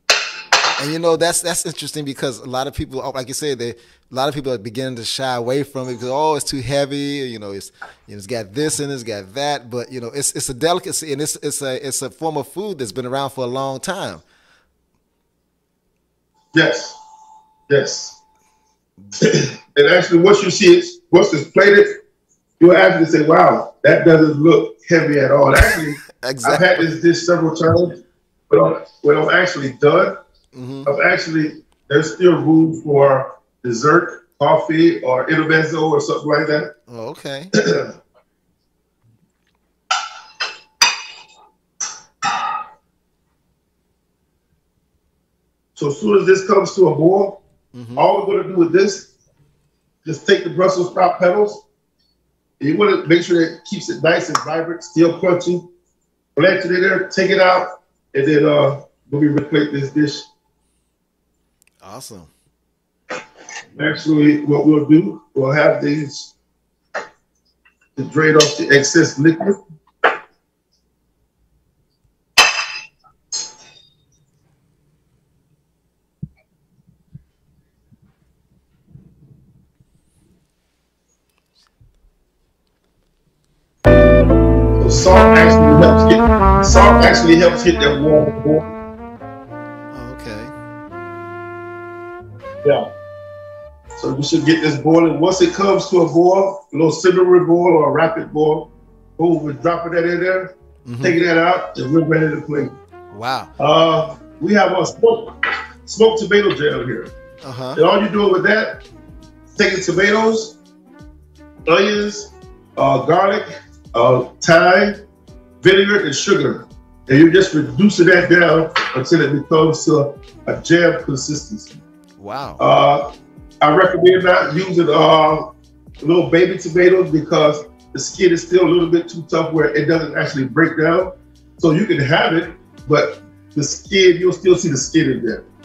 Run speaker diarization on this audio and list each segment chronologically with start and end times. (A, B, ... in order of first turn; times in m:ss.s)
0:00.8-0:14.2 A
0:16.5-0:17.0 B
0:17.7-0:18.2 B
0:19.2-0:22.0 B
0:22.6-0:30.2 B
0:26.2-0:26.8 A
0:30.5-0:30.9 A
0:30.9-0:36.7 B
0:36.9-0:37.5 A
0:37.6-0:37.9 B
0:45.8-0:47.4 B
0:47.7-0:48.1 A
0:48.0-0:49.1 B
0:50.0-0:51.6 B
0:52.6-0:55.7 B
0:56.4-1:00.3 B
1:01.8-1:02.3 A
1:03.8-1:06.3 B
1:08.0-1:09.6 B
1:24.8-1:28.7 B
1:29.9-1:30.5 A
1:32.6-1:32.9 B
1:34.0-1:42.8 B
1:40.8-1:41.2 A
1:43.1-1:43.5 A
1:43.6-1:47.1 B
1:47.4-1:47.8 A
1:47.8-1:48.8 B
1:49.6-1:50.6 B
1:51.7-1:55.0 B
1:55.6-2:01.8 B
2:02.2-2:02.6 A
2:02.6-2:15.4 B